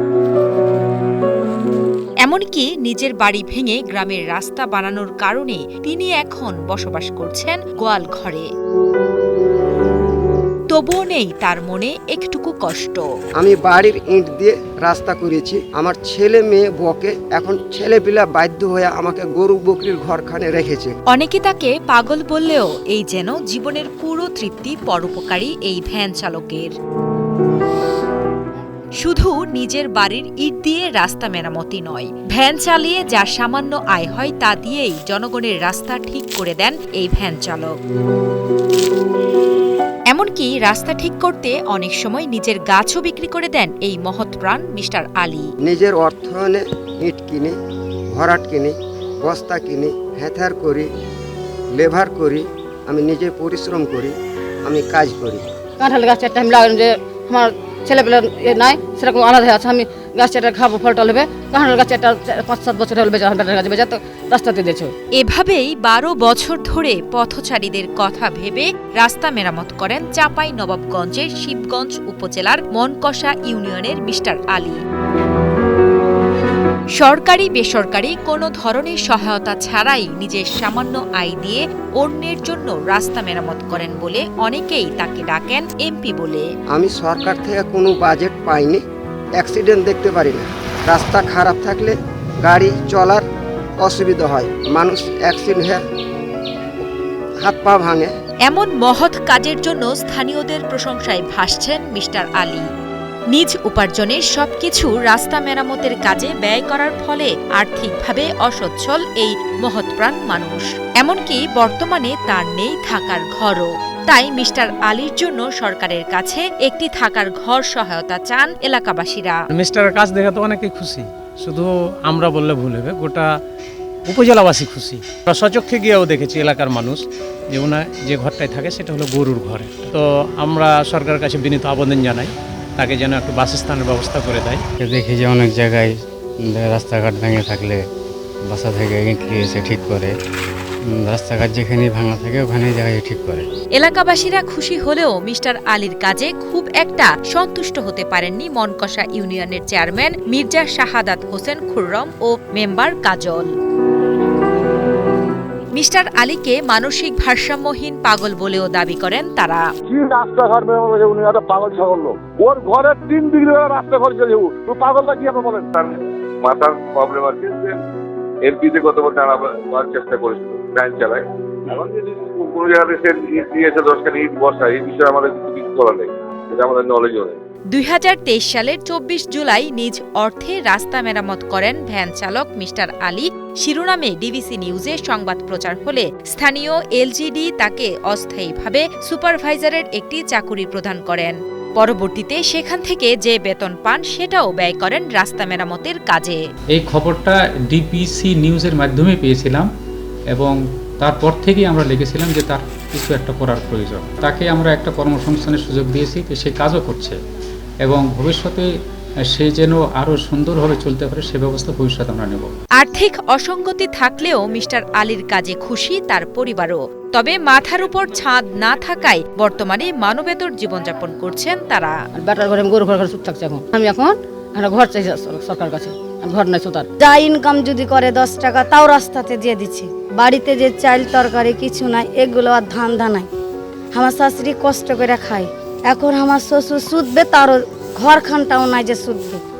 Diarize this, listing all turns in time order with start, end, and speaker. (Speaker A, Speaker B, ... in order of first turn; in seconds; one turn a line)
Speaker A: 2.2-8.5
Speaker A: 10.7-13.0
Speaker B: 13.4-20.9
Speaker A: 21.1-26.7
Speaker A: 29.0-37.7
Speaker A: 40.1-45.5
Speaker B: 45.6-47.5
Speaker B: 48.1-50.9
Speaker B: 51.8-55.5
Speaker C: 55.8-64.9
Speaker A: 65.2-74.8
Speaker A: 77.0-86.5
Speaker B: 86.7-88.8
Speaker B: 89.4-93.2
Speaker B: 93.8-95.8
Speaker B: 97.4-98.1
Speaker A: 98.5-102.7
Speaker A: 103.3-119.4
Speaker D: 119.5-123.3
Speaker D: 124.0-134.6
Speaker E: 134.8-135.9
Speaker E: 136.4-137.8
Speaker E: 138.5-140.1
Speaker E: 140.9-143.4
Speaker A: 143.8-153.5
Speaker A: 155.8-159.6
Speaker F: 159.8-165.7
Speaker G: 165.7-167.8
Speaker G: 168.4-177.4
Speaker A: 177.7-196.4
Speaker H: 196.7-199.7
Speaker H: 200.3-207.2
Speaker H: 207.8-208.7
Speaker H: 209.3-212.5
Speaker A: 212.8-221.9
Speaker C: 222.1-226.9
Speaker I: 227.0-233.3
Speaker I: 233.9-239.4